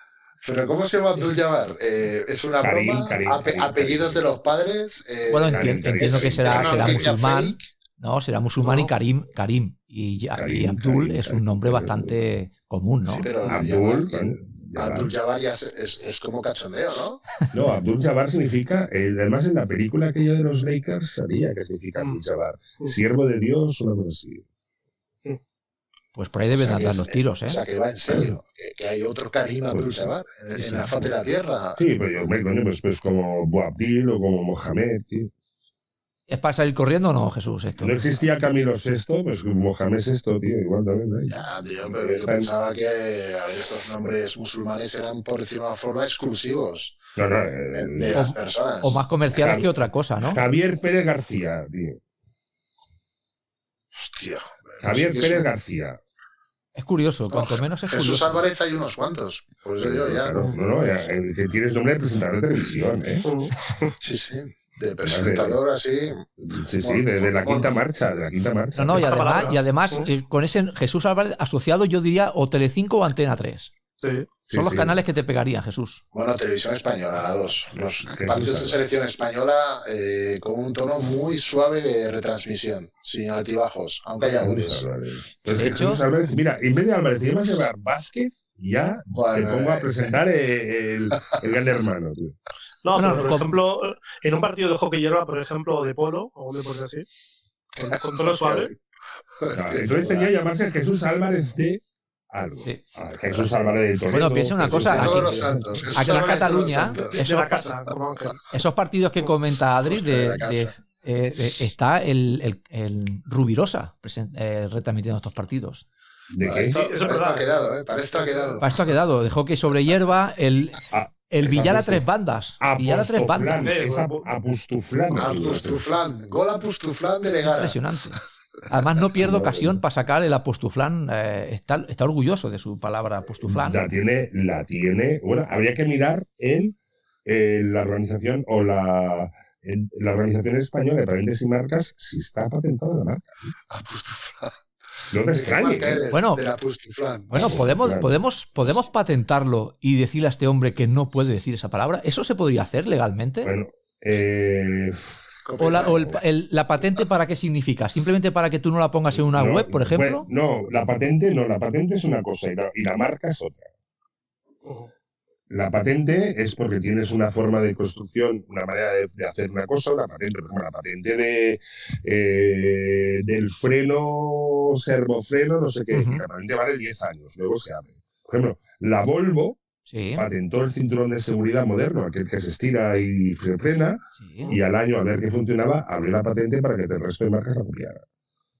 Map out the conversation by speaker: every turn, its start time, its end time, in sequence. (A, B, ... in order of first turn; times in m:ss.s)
0:00.4-0:07.7 A
0:02.6-0:04.2 B
0:05.3-0:13.3 C
0:05.4-0:07.1 B
0:10.3-0:12.1 B
0:13.0-0:17.2 A
0:13.4-0:15.1 B
0:17.5-0:24.4 B
0:26.1-0:27.6 C
0:26.6-0:31.8 A
0:29.7-0:30.1 B
0:30.5-0:31.1 C
0:31.8-0:35.3 B
0:36.3-0:38.0 C
0:37.8-0:42.5 B
0:41.3-0:47.1 A
0:47.2-0:48.2 B
0:47.7-0:49.0 A
0:48.1-0:50.4 C
0:49.3-0:49.7 B
0:50.2-0:52.0 B
0:54.0-0:55.5 A
0:54.8-0:56.0 B
0:56.7-0:58.4 C
0:57.3-1:00.4 A
0:59.8-1:03.3 B
1:03.2-1:03.9 D
1:04.0-1:06.2 A
1:05.0-1:05.6 B
1:06.4-1:09.1 B
1:06.8-1:07.7 A
1:08.7-1:13.7 C
1:09.0-1:10.1 D
1:14.0-1:14.3 D
1:14.5-1:14.9 B
1:14.5-1:16.0 C
1:16.1-1:24.8 A
1:18.0-1:18.8 B
1:24.3-1:32.4 B
1:25.5-1:26.0 C
1:29.1-1:29.9 A
1:32.8-1:37.0 D
1:32.9-1:33.6 C
1:37.8-1:38.7 D
1:38.2-1:38.7 A
1:39.4-1:40.3 A
1:39.5-1:45.8 B
1:44.1-1:47.5 C
1:44.6-1:47.2 A
1:47.0-1:48.4 D
1:48.5-1:55.8 C
1:49.8-1:50.7 A
1:56.3-1:56.8 B
1:56.4-1:58.6 A
1:56.5-1:57.5 D
1:58.6-2:03.7 C
2:00.9-2:02.0 B
2:02.6-2:05.8 B
2:03.5-2:04.3 D
2:05.1-2:07.8 A
2:07.4-2:13.8 C
2:09.2-2:09.8 B
2:13.4-2:23.5 B
2:23.7-2:24.5 A
2:25.1-2:26.0 B
2:25.3-2:27.7 A
2:26.1-2:26.4 C
2:27.3-2:33.5 C
2:27.3-2:28.1 B
2:33.4-2:35.9 B
2:35.4-2:36.2 A
2:35.6-2:40.3 C
2:39.1-2:43.7 B
2:44.6-2:44.9 D
2:45.5-2:59.6 B
2:55.9-2:56.2 C
2:59.9-3:00.2 C
3:00.1-3:08.0 B
3:04.2-3:04.5 C